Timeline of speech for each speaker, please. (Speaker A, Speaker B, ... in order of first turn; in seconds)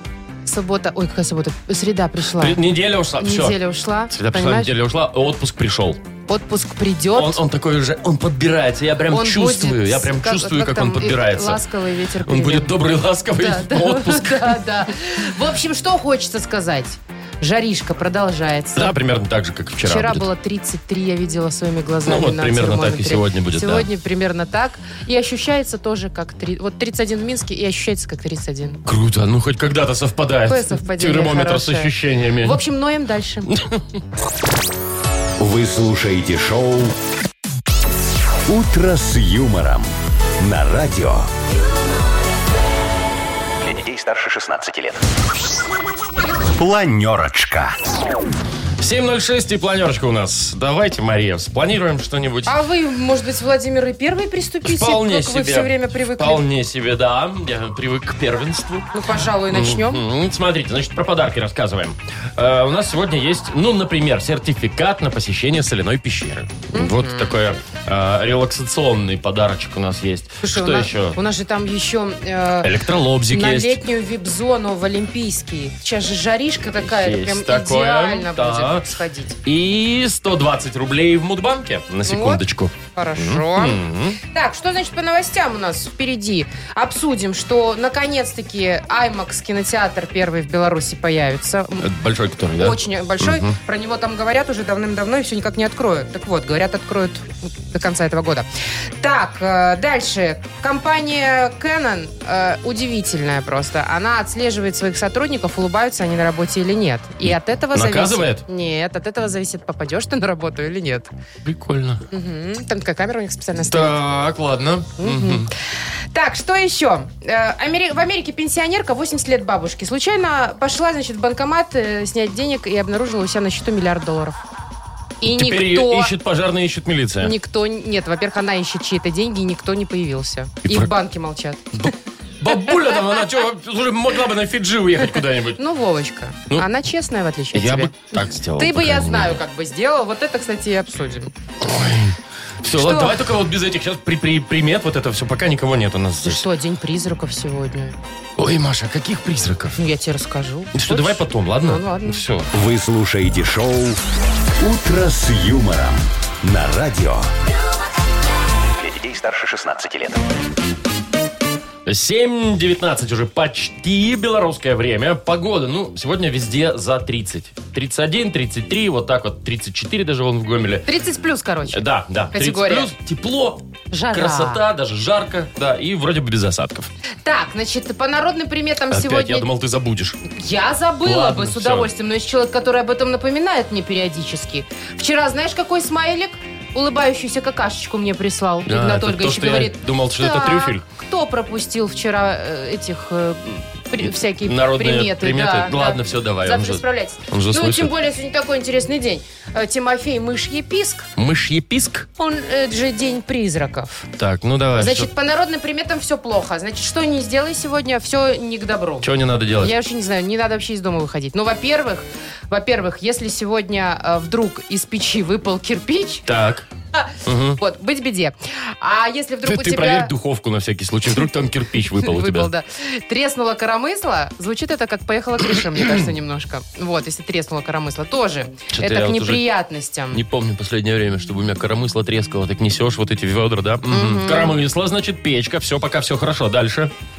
Speaker A: 0.5-2.6, 3.2-4.7, 6.3-7.4, 9.1-12.8, 13.4-18.9, 19.8-28.8, 30.5-33.5, 52.5-56.4, 58.9-60.0, 66.7-67.3, 70.4-72.7, 73.3-79.4, 82.1-83.8, 84.3-91.9, 92.6-98.5, 99.0-111.1, 112.1-114.0, 115.0-115.5, 116.1-124.4, 125.2-126.1, 127.2-131.8, 132.5-133.2, 135.6-137.9, 138.6-141.3, 142.7-143.2, 146.2-148.0, 149.8-152.2, 170.9-172.9, 173.9-174.6, 177.2-179.5, 180.3-201.1, 202.2-204.1, 204.8-216.2, 216.9-220.1, 222.0-230.2, 233.9-234.6
Speaker B: 2.4-6.0, 7.1-11.6, 12.3-14.6, 18.8-20.3, 22.0-23.9, 28.9-32.6, 33.5-33.8, 48.8-52.5, 54.6-71.2, 72.6-73.8, 76.7-78.9, 79.4-84.2, 91.8-93.6, 107.7-108.5, 111.4-112.0, 113.7-115.5, 125.4-127.3, 130.7-130.9, 131.8-135.6, 137.5-139.4, 141.6-146.4, 148.4-149.8, 150.8-152.5, 161.9-170.9, 171.7-176.9, 178.9-180.2, 181.1-181.9, 188.7-190.8, 194.4-197.9, 201.2-202.1, 204.2-205.1, 209.0-209.7, 216.3-216.7, 217.2-217.6, 219.4-222.5, 228.7-229.5, 230.1-236.9
Speaker C: 35.4-37.0, 38.5-41.3, 43.6-45.0, 46.5-47.8, 152.5-154.0, 154.6-157.3, 158.8-160.2